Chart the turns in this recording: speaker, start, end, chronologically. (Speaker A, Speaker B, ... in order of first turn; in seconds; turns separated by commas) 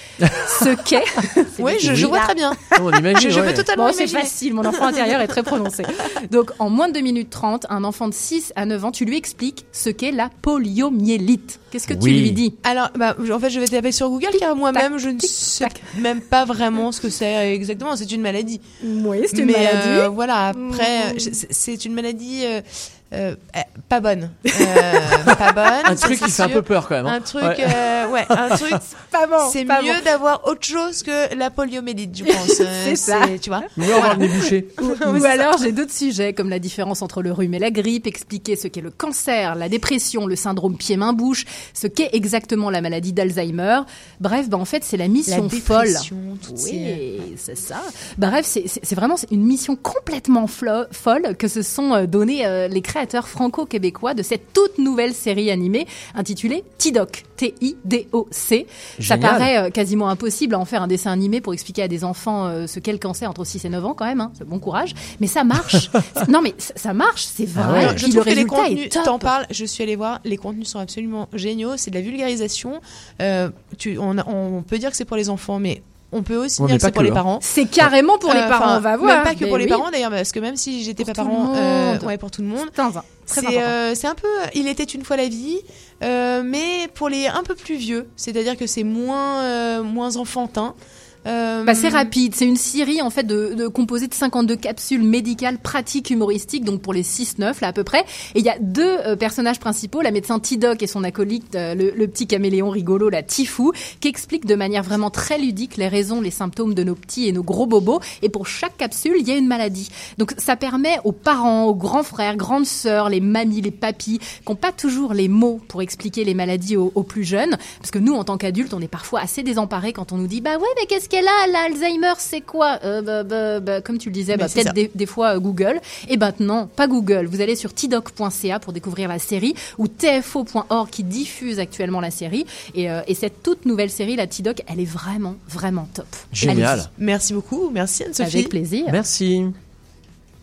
Speaker A: 0.3-2.4, Speaker B: 1.6-5.1, Speaker C: 1.9-2.2, Speaker C: 2.7-3.7, Speaker A: 3.7-12.6, Speaker C: 11.9-12.4, Speaker B: 12.6-18.6, Speaker A: 14.7-15.9, Speaker A: 18.8-21.4, Speaker B: 19.3-28.9, Speaker A: 24.5-25.1, Speaker C: 25.2-28.8, Speaker A: 29.1-30.0, Speaker B: 29.4-35.3, Speaker A: 32.2-69.3, Speaker C: 33.8-35.2, Speaker B: 45.3-47.0, Speaker C: 59.0-59.5, Speaker C: 67.5-68.0, Speaker B: 67.7-77.4, Speaker C: 76.6-77.2, Speaker A: 77.4-79.8, Speaker B: 78.2-82.8, Speaker A: 81.0-83.8, Speaker B: 83.3-92.1, Speaker A: 91.7-136.9, Speaker B: 124.3-124.7, Speaker C: 136.3-136.9, Speaker B: 136.4-138.5, Speaker A: 138.2-139.0, Speaker C: 138.9-139.6